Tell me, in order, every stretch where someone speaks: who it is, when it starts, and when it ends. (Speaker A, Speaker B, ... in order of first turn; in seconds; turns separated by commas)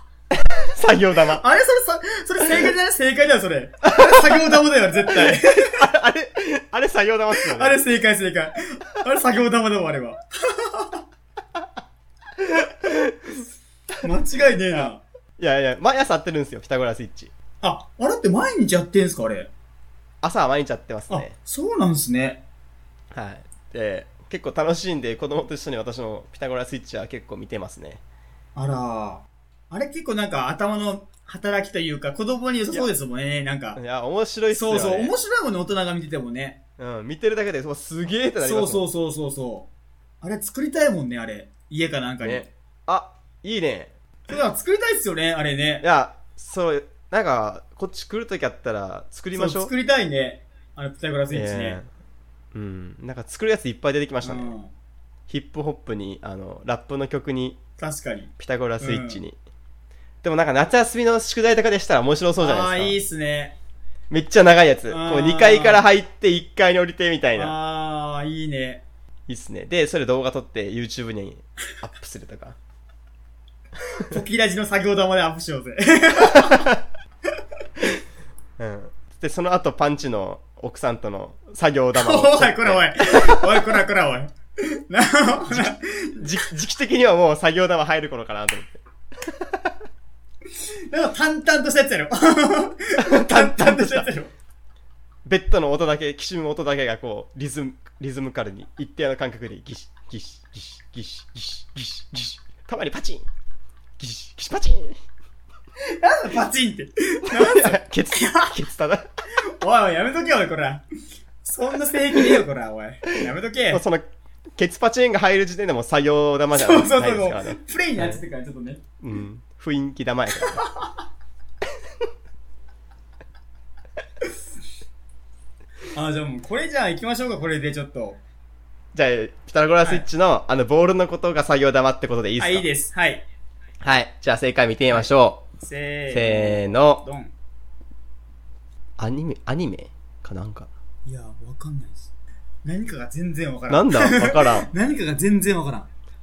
Speaker A: 0.3-1.4, Speaker B: 1.4-5.9, Speaker A: 5.1-7.8, Speaker B: 7.3-11.0, Speaker A: 12.4-13.4, Speaker B: 14.0-15.0, Speaker A: 15.4-17.3, Speaker B: 17.6-19.5, Speaker A: 20.2-21.4, Speaker B: 21.1-22.4, Speaker A: 23.1-28.0, Speaker B: 28.6-33.8, Speaker A: 33.8-35.1, Speaker B: 34.5-36.6, Speaker A: 36.8-38.9, Speaker B: 38.4-39.7, Speaker B: 40.2-42.5, Speaker A: 42.2-43.9, Speaker B: 44.3-45.9, Speaker A: 45.8-49.7, Speaker B: 49.3-51.8, Speaker A: 51.3-51.9, Speaker A: 52.5-54.5, Speaker B: 54.2-54.7, Speaker A: 55.3-57.6, Speaker B: 57.8-59.2, Speaker A: 58.4-59.4, Speaker A: 60.2-63.0, Speaker B: 62.4-63.6, Speaker A: 64.1-67.6, Speaker B: 64.9-65.9, Speaker B: 67.3-68.8, Speaker A: 69.3-72.6, Speaker B: 74.0-76.8, Speaker A: 78.6-83.6, Speaker B: 82.0-86.3, Speaker A: 85.5-89.6, Speaker B: 90.9-94.3, Speaker A: 93.1-94.1, Speaker A: 95.3-103.2, Speaker A: 104.0-105.0, Speaker B: 106.0-108.6, Speaker A: 107.3-109.1, Speaker B: 109.6-110.8, Speaker B: 111.4-113.8, Speaker A: 113.7-114.0, Speaker A: 114.6-118.2, Speaker B: 116.5-118.8, Speaker A: 119.0-120.7, Speaker B: 120.3-121.0, Speaker B: 125.9-128.2, Speaker A: 128.9-132.7, Speaker B: 132.4-133.2, Speaker A: 133.8-135.4, Speaker B: 134.9-137.3, Speaker A: 136.1-137.0, Speaker A: 139.0-140.7, Speaker B: 141.1-142.1, Speaker B: 142.6-145.9, Speaker A: 143.7-144.7